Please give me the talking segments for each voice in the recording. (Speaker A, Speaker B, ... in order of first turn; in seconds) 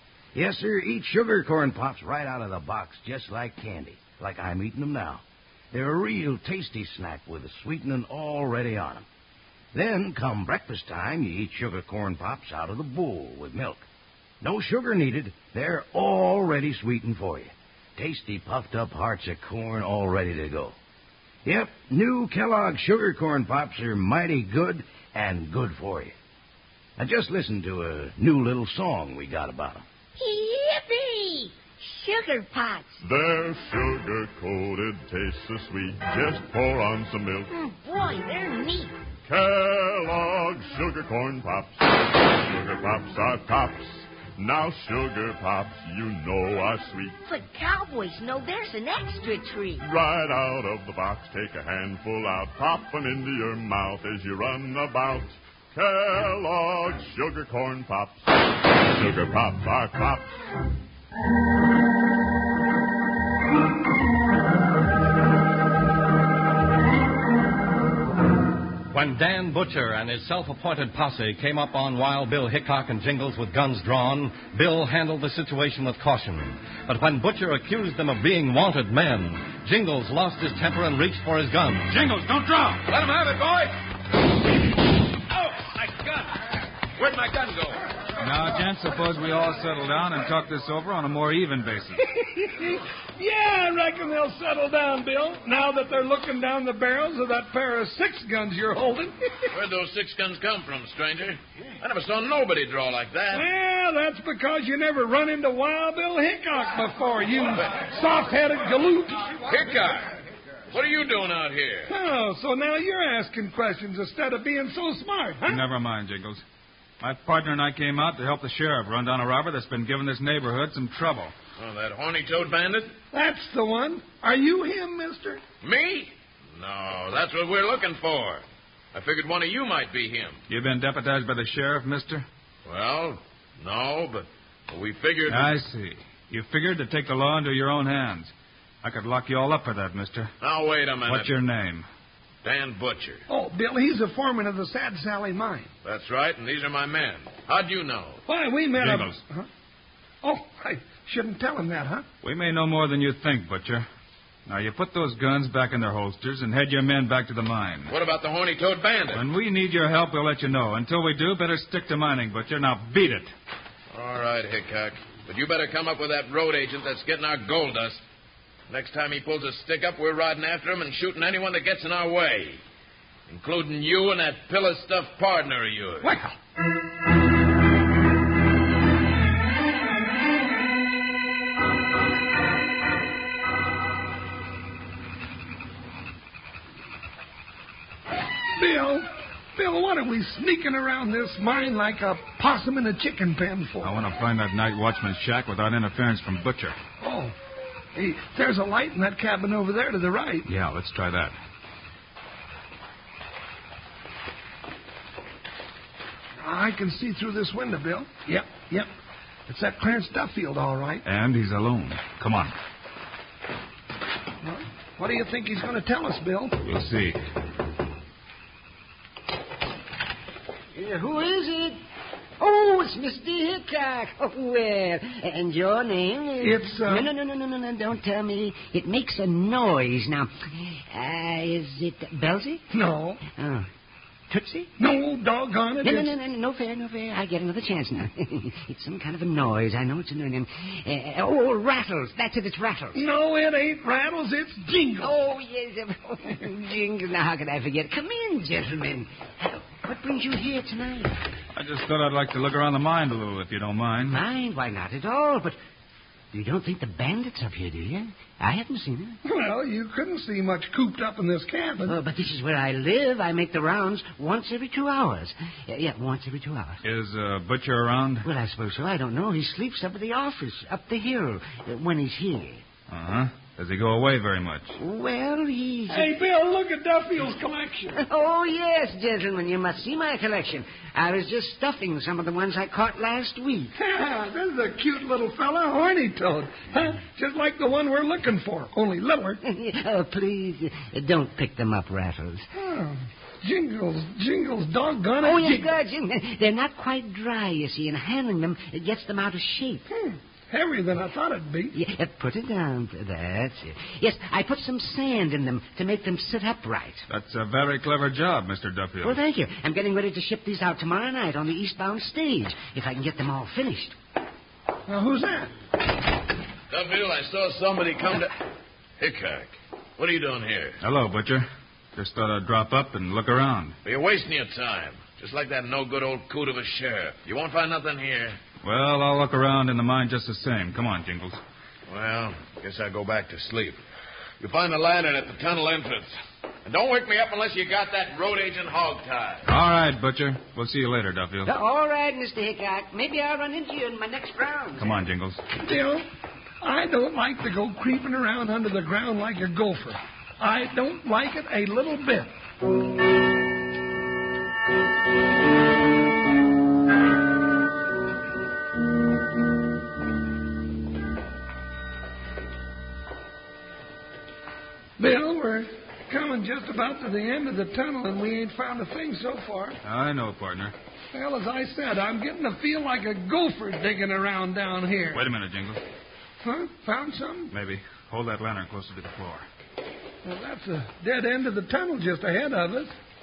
Speaker A: 0.3-9.1, 9.7-13.9, 14.4-20.8, 21.4-26.1, 27.0-29.8
Speaker B: 30.2-33.0, 37.5-38.9, 47.2-49.8
Speaker C: 33.0-37.5, 39.3-47.1, 49.8-58.3, 58.9-60.3
Speaker D: 68.9-81.9
Speaker E: 81.9-82.8, 88.2-92.0, 115.5-116.4, 117.0-121.3, 130.5-132.3, 135.3-138.3, 138.8-140.3, 141.1-141.9, 148.8-149.2, 152.2-153.9, 154.5-157.9, 159.1-163.3, 193.8-196.8, 200.4-201.4, 211.0-212.5, 216.6-217.2, 251.5-254.2, 266.8-268.3, 272.9-274.8, 307.1-309.2, 320.8-323.7, 328.6-331.4, 339.5-341.5, 344.8-345.4, 369.8-370.7, 375.1-375.8, 377.5-379.5
Speaker F: 82.9-83.8, 85.3-86.4, 87.0-87.8, 99.5-103.5, 109.5-110.1, 110.7-111.9, 121.6-123.0, 125.6-130.4, 132.7-135.5, 140.4-141.3, 142.4-143.2, 145.8-148.2, 157.9-159.2, 163.9-168.0, 168.7-172.6, 173.3-176.1, 316.7-318.3, 319.0-320.8, 323.9-328.4, 331.9-333.8, 334.4-339.4
Speaker G: 92.2-99.3, 103.3-109.4, 111.9-115.6, 123.1-125.4, 143.3-145.7, 148.3-149.5, 150.2-152.1, 176.0-176.3, 188.6-194.0, 197.0-197.4, 197.9-200.5, 206.4-208.9, 209.5-211.0, 214.4-216.6, 226.4-227.1, 232.7-233.2, 234.8-236.2, 242.9-245.2, 259.2-262.0, 275.9-278.0, 283.8-289.4, 292.6-295.7, 299.9-301.8, 314.9-315.5, 345.5-346.1, 346.6-352.3, 365.0-369.8, 371.1-375.2, 376.4-377.5, 380.2-382.9
Speaker H: 220.8-221.8, 222.4-232.7, 233.3-233.7, 234.3-234.7, 235.8-243.0, 245.0-251.2, 254.1-255.6, 256.3-259.2, 261.9-266.8, 268.2-272.6, 274.8-276.1, 278.0-283.7, 289.4-292.5, 295.2-299.9, 301.7-307.1, 309.0-313.9, 341.5-345.0